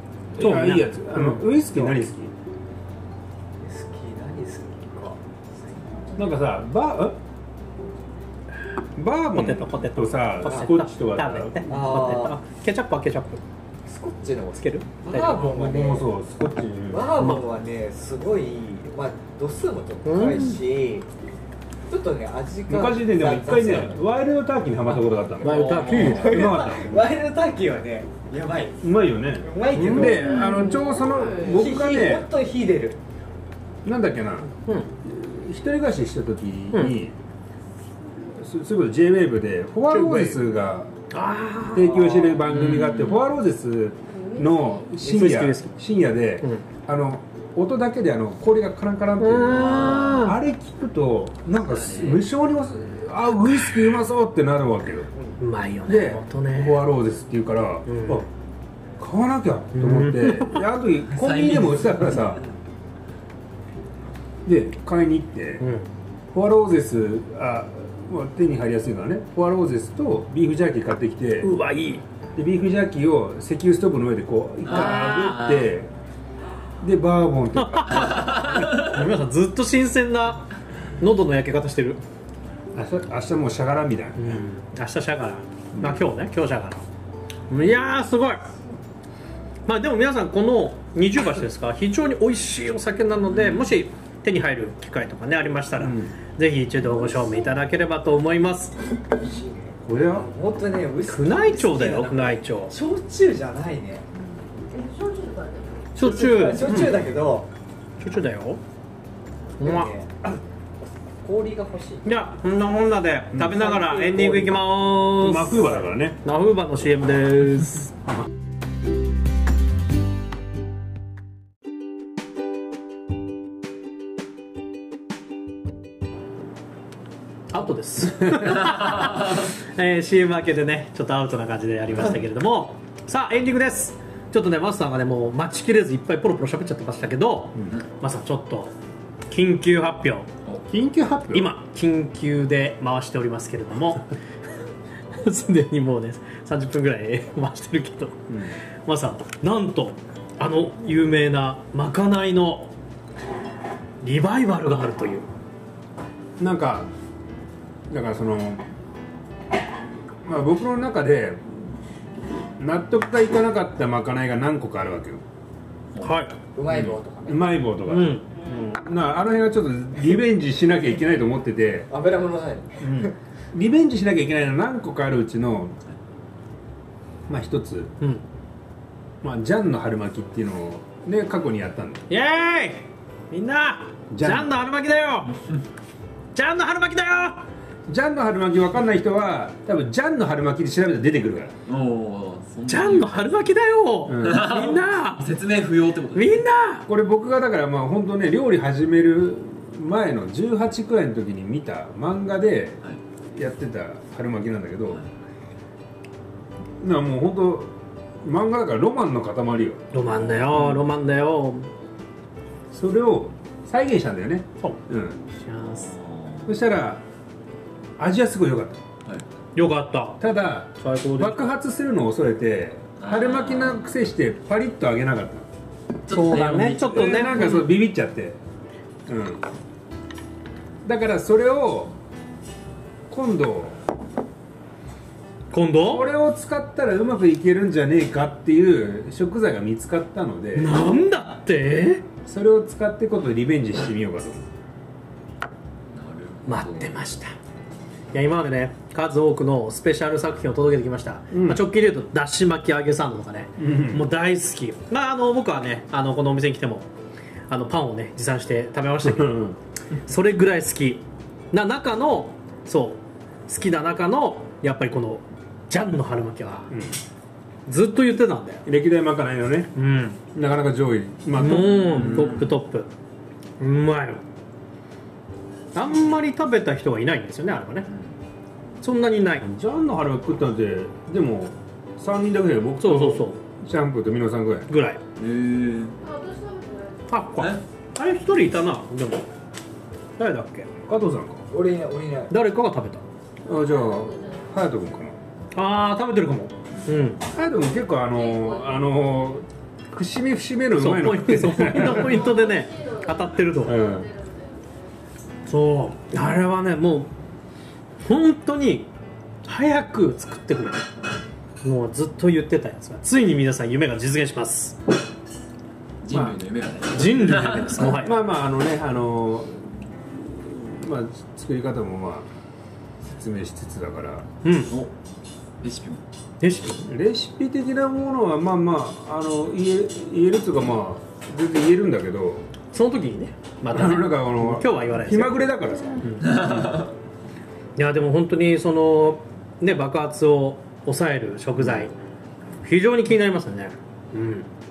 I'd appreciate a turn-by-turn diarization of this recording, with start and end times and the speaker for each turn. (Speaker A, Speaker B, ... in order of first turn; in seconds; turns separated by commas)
Speaker A: 0.3-2.3, Speaker B: 0.4-1.4, Speaker C: 3.6-6.1, Speaker A: 6.2-7.2, Speaker A: 8.9-11.8, Speaker B: 9.3-13.4, Speaker C: 11.7-12.4, Speaker C: 13.8-16.1, Speaker B: 14.5-15.5, Speaker A: 15.2-17.2, Speaker C: 16.9-21.1, Speaker B: 17.2-17.4, Speaker B: 20.0-20.6, Speaker C: 21.9-24.0, Speaker A: 22.7-27.1, Speaker B: 25.4-26.4, Speaker D: 25.4-26.4, Speaker C: 26.0-28.8, Speaker A: 28.8-32.3, Speaker C: 29.4-30.7, Speaker B: 29.7-30.2, Speaker E: 30.0-31.6, Speaker C: 31.5-33.0, Speaker A: 33.8-37.1, Speaker B: 34.6-34.9, Speaker A: 38.3-40.9, Speaker B: 39.9-40.4, Speaker B: 41.1-42.3, Speaker A: 41.7-55.1, Speaker D: 42.5-43.2, Speaker E: 44.1-45.0, Speaker B: 45.0-45.7, Speaker B: 49.2-50.4, Speaker D: 49.5-50.2, Speaker D: 51.6-52.2, Speaker B: 55.4-56.8, Speaker A: 55.9-58.3, Speaker B: 57.9-58.2, Speaker A: 59.0-62.4, Speaker B: 59.7-60.6, Speaker D: 61.1-62.2, Speaker A: 64.4-65.6, Speaker B: 65.6-65.9, Speaker A: 66.3-71.5, Speaker B: 71.4-72.0, Speaker A: 72.3-75.9, Speaker D: 74.6-75.7, Speaker B: 74.7-75.0, Speaker A: 76.8-78.4, Speaker B: 77.5-80.5, Speaker D: 77.9-79.0, Speaker B: 81.0-82.0, Speaker A: 82.7-84.4, Speaker B: 84.2-86.8, Speaker A: 85.7-86.0, Speaker B: 87.5-88.4, Speaker B: 89.7-98.7, Speaker D: 93.3-93.7, Speaker A: 95.8-96.1, Speaker E: 97.0-97.5, Speaker C: 99.1-104.0, Speaker A: 99.8-100.3, Speaker B: 101.0-102.7, Speaker E: 104.2-106.0, Speaker B: 105.9-107.0, Speaker C: 106.0-107.5, Speaker B: 108.0-108.6, Speaker B: 109.6-109.9, Speaker C: 109.6-110.4, Speaker C: 111.2-112.1, Speaker B: 112.0-117.9, Speaker A: 113.3-113.7, Speaker C: 113.5-114.6, Speaker A: 115.1-116.2, Speaker B: 127.5-138.7, Speaker B: 139.3-140.3, Speaker A: 140.7-141.5, Speaker B: 141.3-144.0, Speaker B: 145.2-148.2, Speaker A: 148.3-148.5, Speaker B: 148.8-152.7, Speaker B: 154.0-155.3, Speaker A: 156.4-156.9, Speaker A: 157.9-158.6, Speaker A: 160.2-161.6, Speaker A: 162.6-165.2, Speaker B: 166.0-166.3, Speaker C: 166.5-167.6, Speaker A: 166.7-171.9, Speaker B: 167.8-168.7, Speaker C: 171.9-173.1, Speaker B: 172.8-173.1, Speaker A: 173.5-175.8, Speaker A: 177.3-177.9, Speaker A: 179.2-182.0, Speaker B: 182.1-185.3, Speaker A: 184.1-184.5, Speaker B: 186.3-187.4, Speaker A: 187.9-191.5, Speaker D: 191.7-193.4, Speaker B: 192.7-195.3, Speaker A: 194.1-194.8, Speaker D: 194.2-196.4, Speaker B: 196.1-196.8, Speaker A: 196.9-202.8, Speaker A: 203.3-205.0, Speaker A: 206.8-210.1, Speaker B: 209.9-211.7, Speaker D: 210.2-210.7, Speaker A: 212.7-215.2, Speaker B: 215.4-215.9, Speaker D: 215.6-216.5, Speaker A: 216.5-217.0, Speaker A: 218.0-218.8, Speaker B: 219.5-220.2, Speaker A: 220.2-225.5, Speaker B: 220.8-221.5, Speaker D: 223.0-223.8, Speaker D: 226.1-227.7, Speaker B: 226.1-227.7, Speaker A: 226.8-228.4, Speaker A: 229.1-229.4, Speaker A: 230.8-231.9, Speaker A: 233.1-233.8, Speaker B: 235.5-236.1, Speaker A: 235.8-240.8, Speaker B: 240.6-242.0, Speaker A: 242.2-244.5, Speaker D: 245.9-247.0, Speaker B: 246.4-247.3, Speaker B: 248.1-256.9, Speaker A: 251.3-251.7, Speaker A: 253.6-254.1, Speaker B: 257.5-259.4, Speaker A: 259.0-259.6, Speaker B: 260.1-266.7, Speaker A: 266.7-266.9, Speaker B: 267.7-268.6, Speaker A: 268.6-269.7, Speaker B: 269.7-270.2, Speaker A: 270.3-272.5, Speaker B: 271.4-272.9, Speaker D: 271.9-272.6, Speaker B: 273.6-274.2, Speaker B: 275.7-277.9, Speaker B: 278.8-279.4, Speaker A: 279.4-284.7, Speaker B: 282.8-283.4, Speaker B: 284.7-285.0, Speaker D: 285.2-286.0, Speaker E: 286.0-287.5, Speaker B: 287.1-289.2, Speaker B: 290.2-290.7, Speaker A: 290.9-291.4, Speaker C: 291.5-292.3, Speaker B: 292.3-293.0, Speaker E: 293.4-294.5, Speaker A: 293.4-295.2, Speaker B: 295.5-297.2, Speaker A: 297.3-302.3, Speaker E: 297.9-299.2, Speaker B: 300.8-303.8, Speaker E: 301.8-304.9, Speaker A: 303.6-304.1, Speaker B: 305.5-307.1, Speaker B: 308.0-308.9, Speaker B: 309.4-310.8, Speaker B: 311.6-314.8, Speaker D: 316.0-317.9, Speaker B: 316.9-318.2, Speaker A: 317.8-322.3, Speaker A: 323.0-324.3, Speaker B: 324.4-324.7, Speaker D: 325.6-326.0, Speaker B: 326.4-326.8, Speaker A: 326.8-332.5, Speaker B: 332.7-335.5, Speaker A: 333.7-336.1, Speaker B: 336.0-336.7, Speaker D: 336.2-336.9, Speaker B: 337.8-341.9, Speaker B: 342.6-344.5